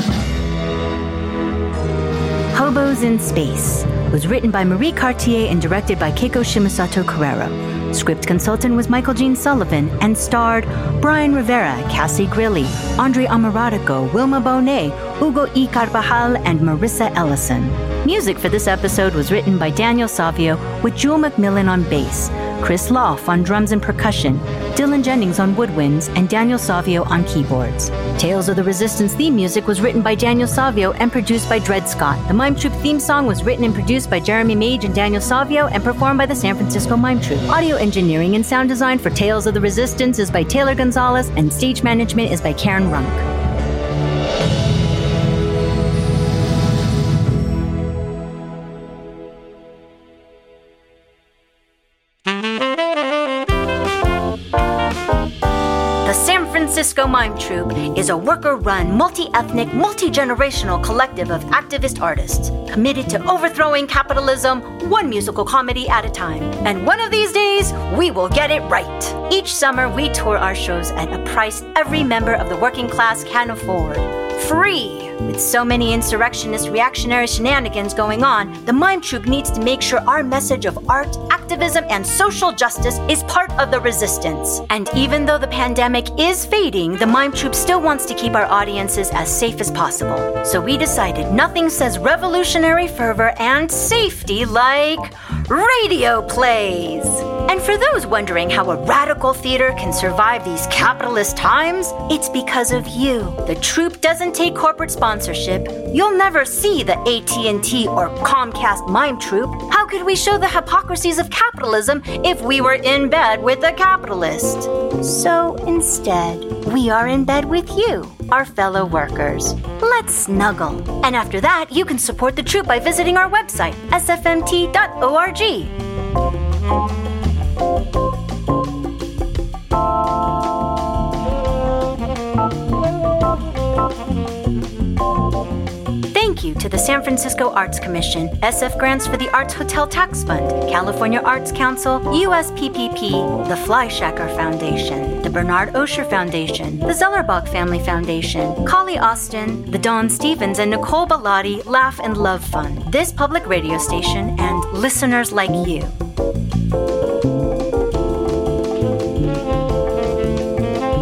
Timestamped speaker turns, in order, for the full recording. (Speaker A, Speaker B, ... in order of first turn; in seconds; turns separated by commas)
Speaker A: 2.5-43.2, Speaker A: 56.0-125.8, Speaker A: 136.1-155.9